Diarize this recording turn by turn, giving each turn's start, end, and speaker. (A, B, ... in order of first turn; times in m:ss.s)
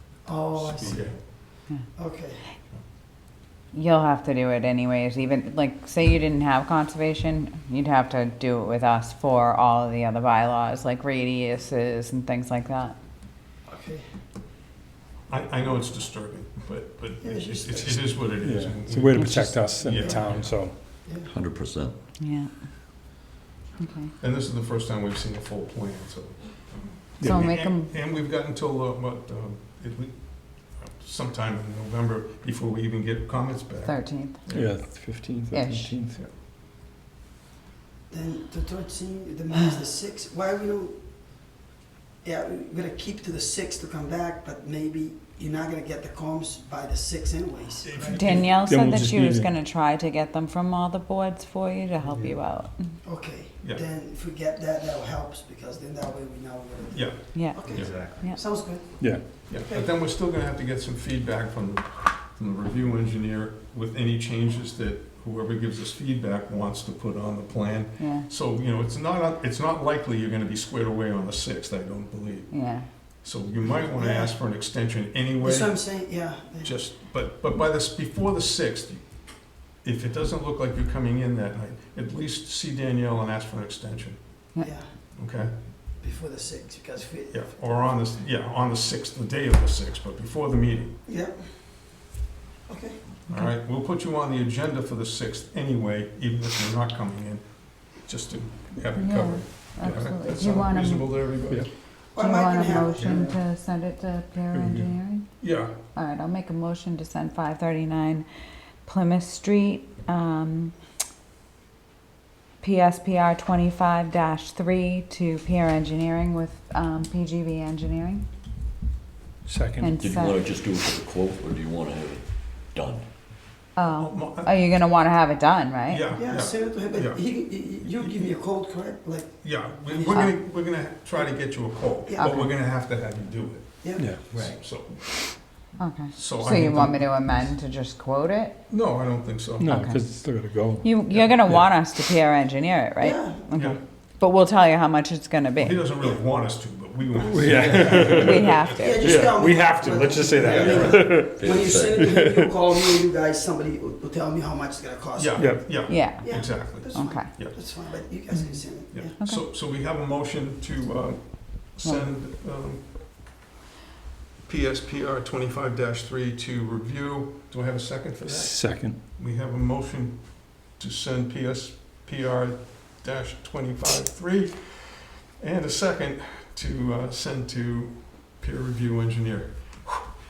0:00.2-0:02.4 A
0:00.5-0:01.2 B
0:03.7-0:13.0 C
0:13.7-0:14.1 A
0:15.3-0:20.6 B
0:17.2-0:18.2 A
0:18.4-0:20.7 D
0:19.1-0:19.6 C
0:19.9-0:20.4 A
0:21.0-0:21.3 A
0:21.3-0:21.9 E
0:22.2-0:22.5 C
0:23.8-0:24.1 C
0:24.2-0:35.2 B
0:27.2-0:27.4 D
0:27.2-0:27.9 C
0:33.8-0:34.5 C
0:34.5-0:36.2 D
0:35.5-0:36.0 C
0:38.1-0:41.0 A
0:42.2-0:48.4 A
0:47.8-0:48.6 B
0:48.1-0:52.9 C
0:48.5-0:49.5 D
0:53.0-0:59.9 A
0:56.9-0:58.1 B
0:57.3-0:58.4 C
0:57.8-0:58.2 E
0:59.4-1:24.5 B
1:08.0-1:08.2 C
1:12.5-1:12.9 C
1:13.9-1:14.3 A
1:15.4-1:16.7 A
1:24.6-1:24.9 A
1:25.1-1:25.5 B
1:26.0-1:27.4 A
1:27.3-1:30.9 B
1:31.0-1:32.0 A
1:32.7-1:33.0 A
1:33.3-1:41.7 B
1:38.9-1:41.3 C
1:42.1-1:48.3 C
1:42.1-1:43.4 A
1:42.9-1:43.3 B
1:44.5-1:44.9 D
1:45.4-1:45.8 B
1:48.8-1:50.8 C
1:52.6-1:58.2 C
1:59.4-2:00.0 D
1:59.8-2:00.6 C
2:00.0-2:03.0 E
2:03.8-2:06.0 C
2:03.9-2:04.8 B
2:05.9-2:08.3 B
2:06.1-2:10.3 A
2:09.4-2:17.5 B
2:12.1-2:12.4 A
2:12.2-2:12.5 C
2:13.8-2:14.1 A
2:14.3-2:14.6 E
2:15.8-2:18.6 C
2:18.7-2:20.0 B
2:19.6-2:21.0 D
2:19.7-2:25.8 C
2:21.1-2:21.6 B
2:23.0-2:23.4 A
2:23.5-2:23.8 B
2:25.6-2:29.4 B
2:27.2-2:31.4 D
2:27.5-2:39.1 A
2:28.1-2:29.0 C
2:30.4-2:31.3 B
2:30.6-2:32.0 E
2:31.9-2:32.5 D
2:35.2-2:37.6 B
2:35.4-2:35.8 D
2:35.8-2:37.3 C
2:38.3-2:39.4 C
2:38.9-2:42.9 B
2:41.8-2:42.1 C
2:44.4-3:00.1 B
2:48.2-2:49.0 D